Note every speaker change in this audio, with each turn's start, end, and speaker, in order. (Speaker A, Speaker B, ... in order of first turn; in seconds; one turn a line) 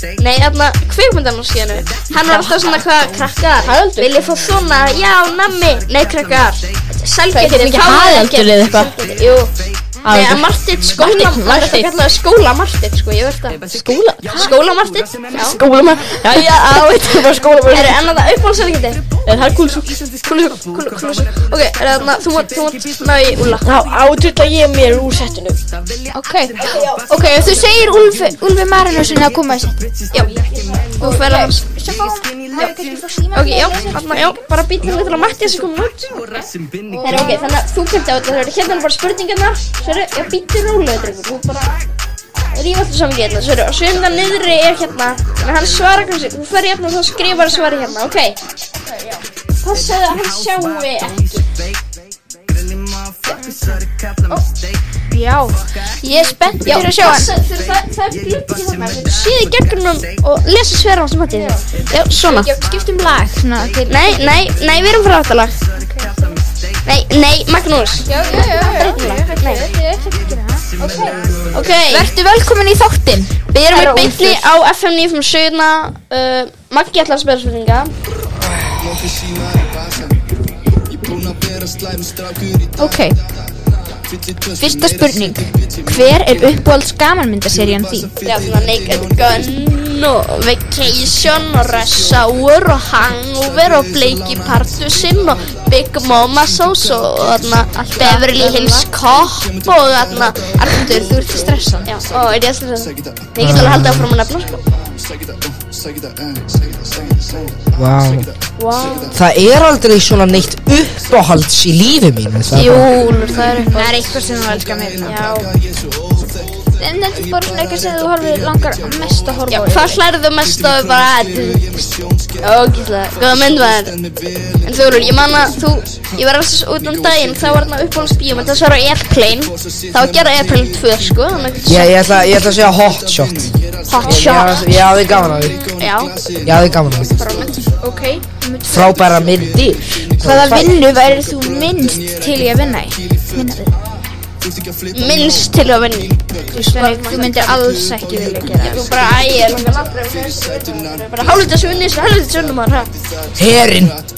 Speaker A: 0.2-9.5
Speaker B: 2.3-2.5
Speaker B: 3.6-4.1
Speaker B: 7.3-8.9
Speaker B: 10.0-12.0
Speaker A: 10.0-13.6
Speaker B: 13.7-14.5
Speaker A: 14.3-15.6
Speaker B: 15.3-17.9
Speaker A: 17.7-19.1
Speaker B: 19.2-20.0
Speaker A: 20.3-23.6
Speaker B: 23.6-25.6
Speaker C: 26.1-26.6
Speaker B: 26.6-27.0
Speaker C: 27.1-34.4
Speaker A: 31.0-31.6
Speaker A: 33.3-36.3
Speaker C: 36.9-37.5
Speaker A: 37.0-41.8
Speaker A: 42.5-48.4
Speaker A: 49.6-51.4
Speaker C: 55.1-57.3
Speaker A: 56.6-62.5
Speaker C: 61.3-61.6
Speaker C: 62.2-64.3
Speaker A: 63.9-65.6
Speaker C: 65.8-66.3
Speaker A: 66.8-69.6
Speaker C: 68.1-71.2
Speaker A: 71.5-72.1
Speaker C: 71.9-74.5
Speaker A: 73.7-77.9
Speaker C: 82.8-83.2
Speaker C: 84.6-88.1
Speaker A: 88.2-101.0
Speaker C: 97.7-98.9
Speaker C: 100.6-101.9
Speaker A: 101.9-104.5
Speaker D: 103.4-104.1
Speaker D: 107.8-108.3
Speaker A: 108.6-109.2
Speaker D: 109.1-112.9
Speaker A: 112.5-114.1
Speaker C: 113.2-115.3
Speaker A: 115.0-115.5
Speaker C: 116.8-120.0
Speaker A: 119.5-121.9
Speaker A: 122.4-124.0
Speaker A: 124.6-131.9
Speaker D: 131.6-135.6
Speaker A: 133.9-134.7
Speaker A: 135.8-136.2
Speaker D: 136.4-137.1
Speaker A: 137.1-137.7
Speaker C: 137.8-139.0
Speaker D: 138.7-140.7
Speaker C: 140.2-143.7
Speaker A: 144.9-147.5
Speaker C: 146.5-149.0
Speaker A: 148.6-152.9
Speaker D: 153.3-153.9